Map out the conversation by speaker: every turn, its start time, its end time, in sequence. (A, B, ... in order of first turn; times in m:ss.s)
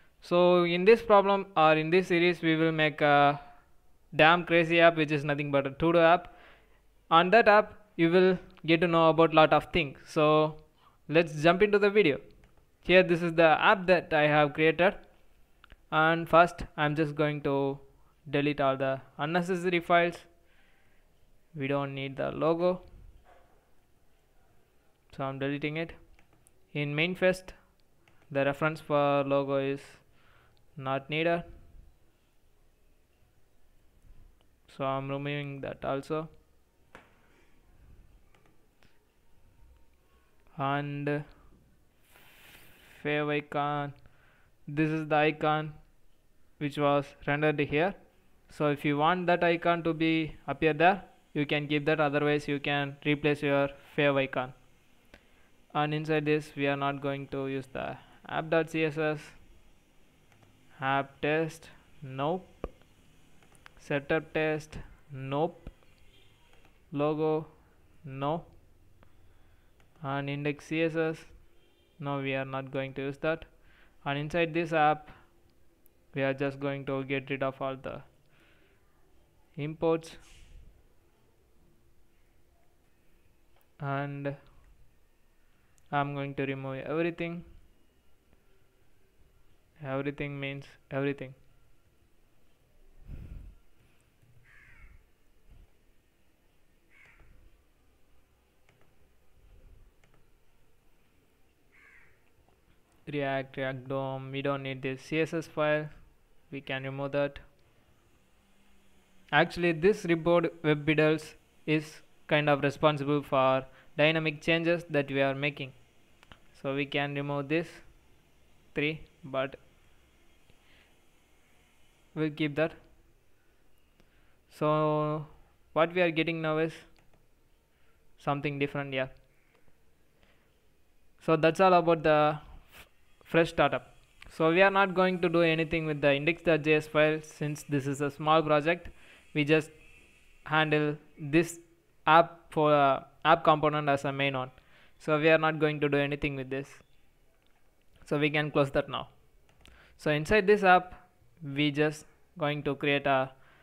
0:00.2-0:03.4 A
0:04.1-0:06.3 A
0:07.1-0:12.2 A
0:12.8-0:15.0 A
0:15.9-0:20.3 A
0:21.5-0:22.8 A
0:25.1-0:26.0 A
0:26.7-0:27.6 A
0:28.3-0:30.0 A
0:30.8-0:31.4 A
0:34.7-0:36.3 A
0:40.6-0:41.2 A
0:42.9-0:44.0 A
0:44.7-0:45.8 A
0:46.6-0:48.0 A
0:48.5-0:54.6 A
0:55.7-0:59.4 A
1:00.8-1:02.7 A
1:03.8-1:05.8 A
1:06.9-1:07.5 A
1:08.0-1:08.5 A
1:10.0-1:11.3 A
1:12.0-1:13.5 A
1:14.0-1:15.2 A
1:16.1-1:18.1 A
1:19.6-1:20.2 A
1:23.8-1:24.4 A
1:25.9-1:27.4 A
1:29.8-1:31.4 A
1:43.1-1:45.9 A
1:46.5-1:47.4 A
1:49.3-1:55.8 A
1:56.5-1:57.8 A
1:58.7-1:59.6 A
2:02.1-2:02.8 A
2:04.5-2:06.9 A
2:08.2-2:09.1 A
2:11.2-2:19.7 A
2:20.4-2:26.8 A
2:28.0-2:29.1 A
2:30.0-2:33.3 A